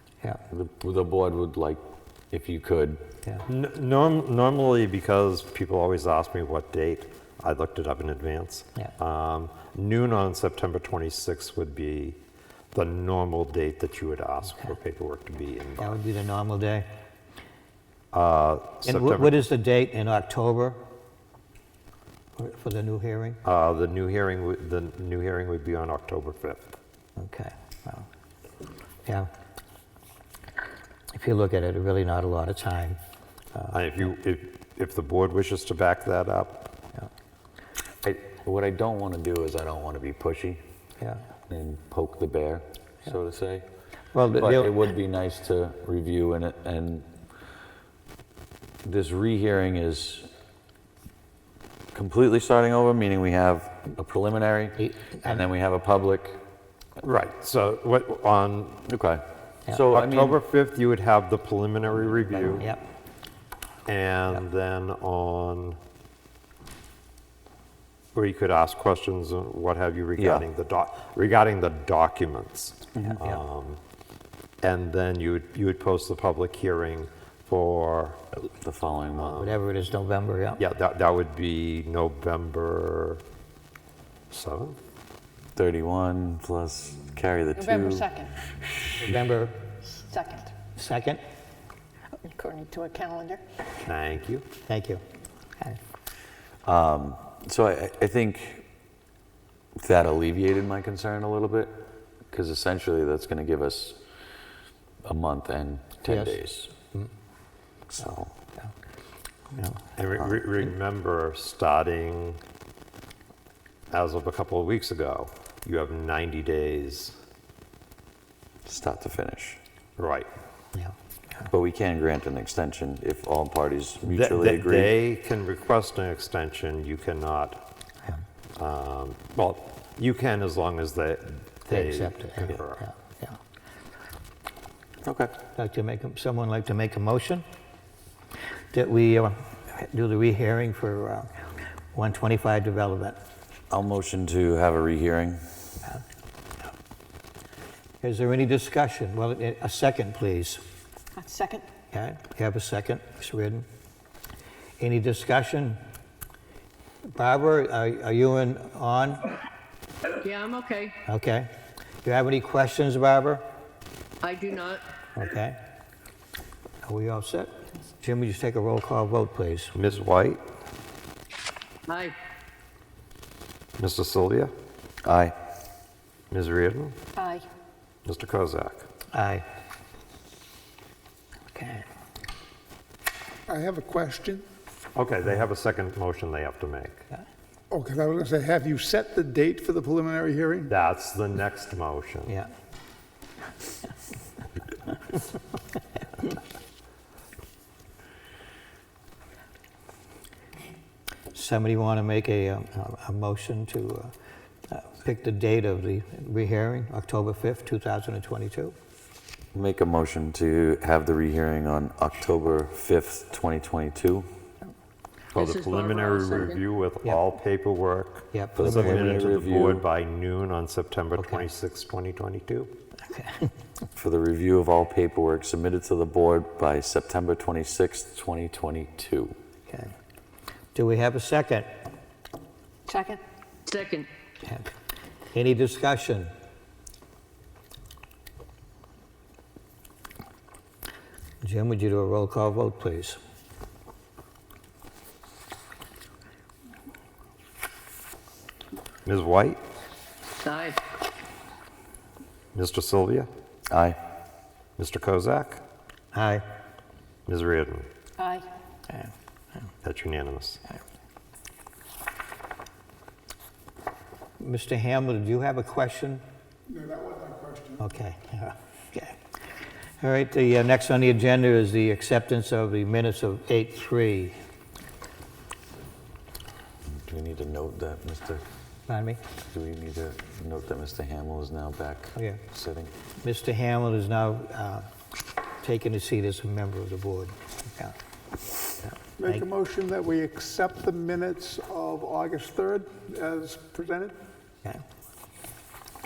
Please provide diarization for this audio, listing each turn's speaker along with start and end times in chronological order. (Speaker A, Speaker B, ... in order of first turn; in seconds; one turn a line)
Speaker A: 0.5-3.0
Speaker B: 3.5-12.2
Speaker B: 12.7-15.9
Speaker C: 15.8-16.9
Speaker B: 18.1-19.4
Speaker C: 18.8-20.8
Speaker C: 22.4-23.4
Speaker B: 23.4-26.7
Speaker C: 27.2-28.1
Speaker C: 29.0-29.3
Speaker C: 31.1-33.0
Speaker C: 33.5-34.1
Speaker B: 33.7-36.7
Speaker A: 38.0-40.6
Speaker A: 41.5-43.6
Speaker C: 44.1-44.7
Speaker A: 44.3-47.1
Speaker A: 48.8-50.3
Speaker A: 51.9-56.4
Speaker C: 54.8-55.4
Speaker B: 57.0-58.9
Speaker A: 58.9-60.4
Speaker B: 59.9-62.7
Speaker B: 63.9-65.8
Speaker B: 68.1-73.8
Speaker A: 70.2-70.4
Speaker C: 73.0-73.4
Speaker B: 74.6-78.2
Speaker A: 78.6-79.4
Speaker B: 79.2-79.6
Speaker C: 79.4-80.6
Speaker B: 80.6-83.2
Speaker B: 84.3-84.8
Speaker A: 85.5-88.1
Speaker D: 87.5-88.4
Speaker C: 89.0-89.7
Speaker D: 89.9-90.6
Speaker C: 90.7-91.2
Speaker D: 92.2-93.4
Speaker B: 93.8-94.5
Speaker C: 94.7-95.0
Speaker A: 96.7-98.6
Speaker A: 99.8-104.0
Speaker A: 105.0-106.7
Speaker C: 106.0-106.3
Speaker A: 107.9-108.3
Speaker C: 109.5-109.8
Speaker B: 110.0-112.4
Speaker B: 113.9-117.2
Speaker A: 118.7-119.6
Speaker B: 120.0-120.3
Speaker A: 121.5-124.9
Speaker B: 124.0-127.7
Speaker B: 128.6-132.8
Speaker C: 131.7-133.4
Speaker A: 135.0-135.3
Speaker C: 135.5-137.4
Speaker C: 138.7-141.3
Speaker C: 141.9-143.2
Speaker A: 143.7-145.4
Speaker C: 148.0-150.6
Speaker D: 151.2-151.7
Speaker C: 151.9-153.7
Speaker C: 154.8-155.8
Speaker C: 157.1-159.3
Speaker E: 160.2-161.0
Speaker C: 161.1-161.5
Speaker C: 162.0-163.4
Speaker E: 164.2-164.8
Speaker C: 165.2-165.6
Speaker C: 166.8-169.7
Speaker B: 169.7-170.4
Speaker E: 171.9-172.1
Speaker B: 173.8-174.5
Speaker A: 175.0-175.3
Speaker B: 176.3-177.0
Speaker D: 177.2-177.5
Speaker B: 178.1-178.9
Speaker C: 179.1-179.4
Speaker C: 181.5-181.8
Speaker F: 183.5-184.4
Speaker B: 184.9-187.0
Speaker F: 187.7-190.7
Speaker B: 190.7-192.3
Speaker C: 201.3-204.1
Speaker C: 204.7-208.7
Speaker A: 209.5-214.3
Speaker A: 215.3-215.6
Speaker E: 215.3-216.6
Speaker B: 215.6-222.7
Speaker C: 218.3-219.4
Speaker A: 218.6-219.8
Speaker C: 221.2-221.4
Speaker C: 223.1-223.5
Speaker A: 223.9-229.3
Speaker C: 229.7-229.9
Speaker C: 230.7-231.8
Speaker D: 232.9-233.2
Speaker E: 233.7-234.1
Speaker C: 235.3-236.3
Speaker C: 241.4-243.2
Speaker B: 249.1-249.6
Speaker E: 250.4-250.8
Speaker B: 252.5-253.3
Speaker A: 253.7-254.0
Speaker B: 254.8-255.6
Speaker C: 256.1-256.4
Speaker B: 257.3-257.9
Speaker D: 258.2-258.5
Speaker B: 259.8-260.6
Speaker C: 264.4-266.2
Speaker F: 266.7-267.8
Speaker C: 267.8-269.1
Speaker C: 270.0-274.4
Speaker A: 276.9-278.4
Speaker C: 278.9-279.2
Speaker A: 279.5-282.9
Speaker C: 282.1-282.4
Speaker C: 283.2-284.9
Speaker C: 285.6-287.9
Speaker F: 289.2-294.2